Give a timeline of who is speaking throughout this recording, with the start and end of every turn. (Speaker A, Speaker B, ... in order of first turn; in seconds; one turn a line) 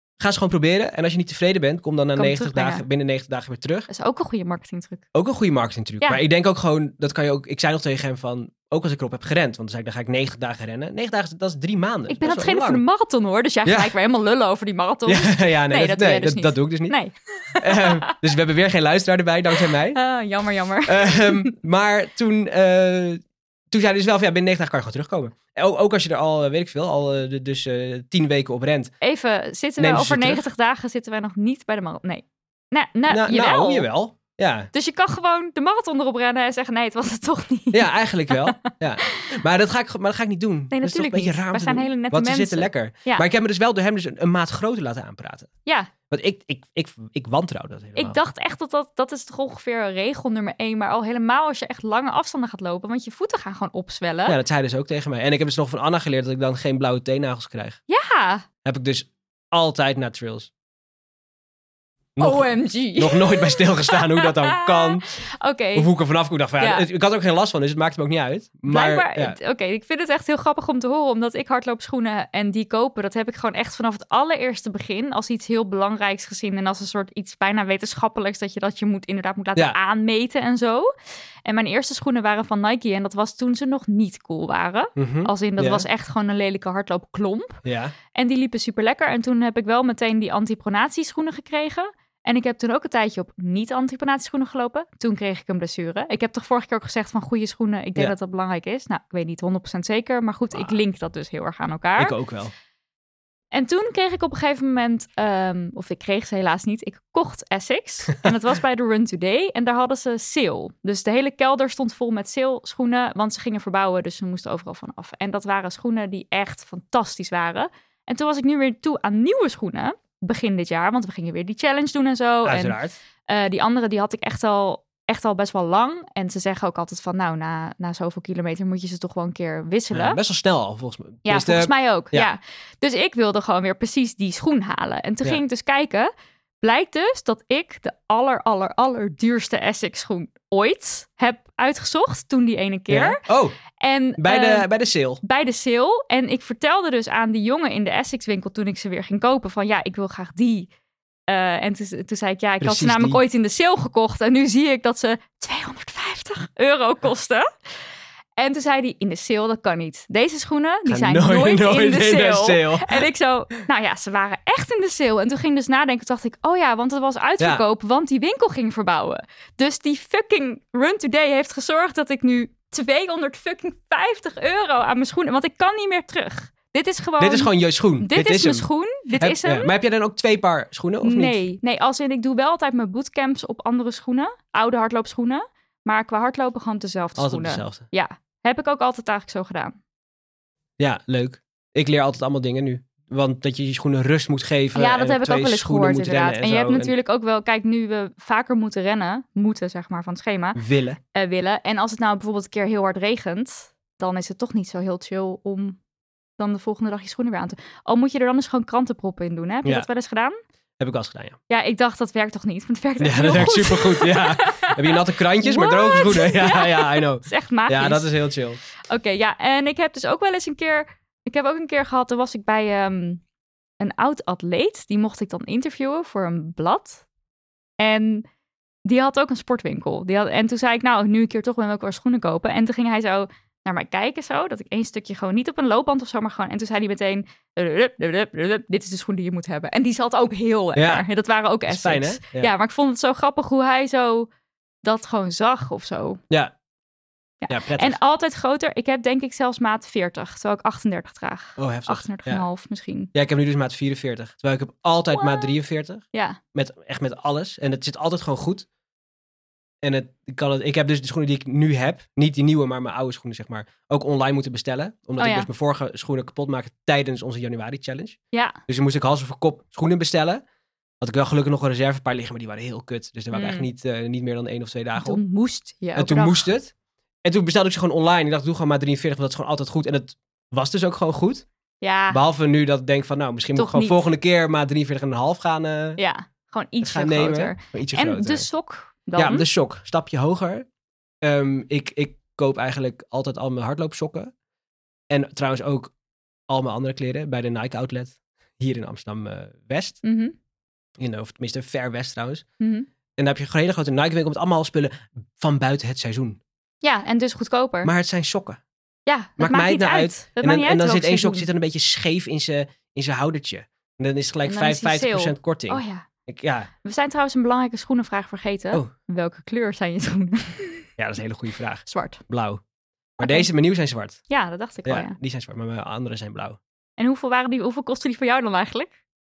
Speaker A: 0.2-3.9
Speaker B: 2.1-2.8
Speaker B: 3.9-5.0
Speaker A: 5.1-12.8
Speaker B: 12.1-18.2
Speaker A: 13.7-13.9
Speaker A: 15.1-16.9
Speaker A: 17.6-20.0
Speaker B: 19.6-21.5
Speaker A: 20.9-28.9
Speaker B: 29.0-33.9
Speaker A: 29.8-30.4
Speaker A: 33.1-34.7
Speaker B: 34.7-39.3
Speaker A: 37.7-45.5
Speaker B: 40.7-43.2
Speaker B: 45.6-45.9
Speaker A: 46.1-48.2
Speaker B: 47.9-54.4
Speaker A: 54.3-57.8
Speaker B: 57.9-58.4
Speaker A: 58.6-60.5
Speaker A: 62.1-65.0
Speaker B: 62.2-65.9
Speaker A: 65.7-69.3
Speaker B: 66.6-66.8
Speaker B: 68.7-80.9
Speaker B: 81.4-87.6
Speaker A: 85.0-85.8
Speaker A: 87.6-87.9
Speaker B: 88.1-102.2
Speaker A: 100.5-100.8
Speaker A: 102.0-102.5
Speaker B: 103.5-130.2
Speaker A: 122.4-122.9
Speaker A: 129.9-132.3
Speaker B: 131.2-136.1
Speaker B: 136.6-143.2
Speaker A: 142.9-143.6
Speaker B: 143.8-144.7
Speaker A: 144.2-145.2
Speaker B: 145.2-150.7
Speaker B: 151.3-157.4
Speaker A: 152.6-153.2
Speaker B: 158.4-179.7
Speaker A: 160.8-163.1
Speaker A: 177.2-178.6
Speaker A: 179.2-181.4
Speaker B: 181.0-189.8
Speaker A: 187.2-187.8
Speaker A: 190.8-196.9
Speaker B: 194.7-200.6
Speaker A: 200.5-201.0
Speaker B: 201.1-205.8
Speaker B: 206.4-210.4
Speaker A: 210.8-211.4
Speaker B: 211.5-218.1
Speaker A: 213.0-218.6
Speaker B: 218.9-223.2
Speaker B: 223.8-227.0
Speaker B: 227.8-228.2
Speaker B: 228.8-244.3
Speaker A: 240.8-241.0
Speaker A: 241.7-242.5
Speaker B: 244.8-246.2
Speaker B: 247.4-253.1
Speaker A: 247.5-248.0
Speaker A: 251.6-252.4
Speaker A: 253.1-258.6
Speaker B: 255.1-255.5
Speaker B: 256.1-256.4
Speaker A: 259.8-270.4
Speaker B: 265.2-265.5
Speaker B: 268.3-268.6
Speaker A: 271.0-275.2
Speaker B: 273.3-273.7
Speaker B: 274.9-276.5
Speaker A: 275.9-276.7
Speaker A: 277.2-281.4
Speaker B: 281.8-282.2
Speaker A: 282.1-286.0
Speaker B: 283.5-284.1
Speaker B: 286.0-289.4
Speaker A: 286.8-288.5
Speaker A: 289.2-290.6
Speaker A: 291.2-294.3
Speaker A: 295.1-295.9
Speaker A: 296.5-300.0
Speaker B: 300.0-300.3
Speaker A: 301.0-302.4
Speaker B: 302.6-302.9
Speaker A: 303.2-306.4
Speaker B: 306.8-307.9
Speaker A: 307.8-308.6
Speaker B: 309.1-311.5
Speaker A: 309.4-316.7
Speaker B: 314.4-316.1
Speaker B: 316.8-320.9
Speaker A: 321.0-322.6
Speaker B: 321.8-322.2
Speaker A: 323.2-324.2
Speaker B: 323.2-323.5
Speaker B: 324.3-325.2
Speaker A: 324.8-326.6
Speaker B: 327.0-328.9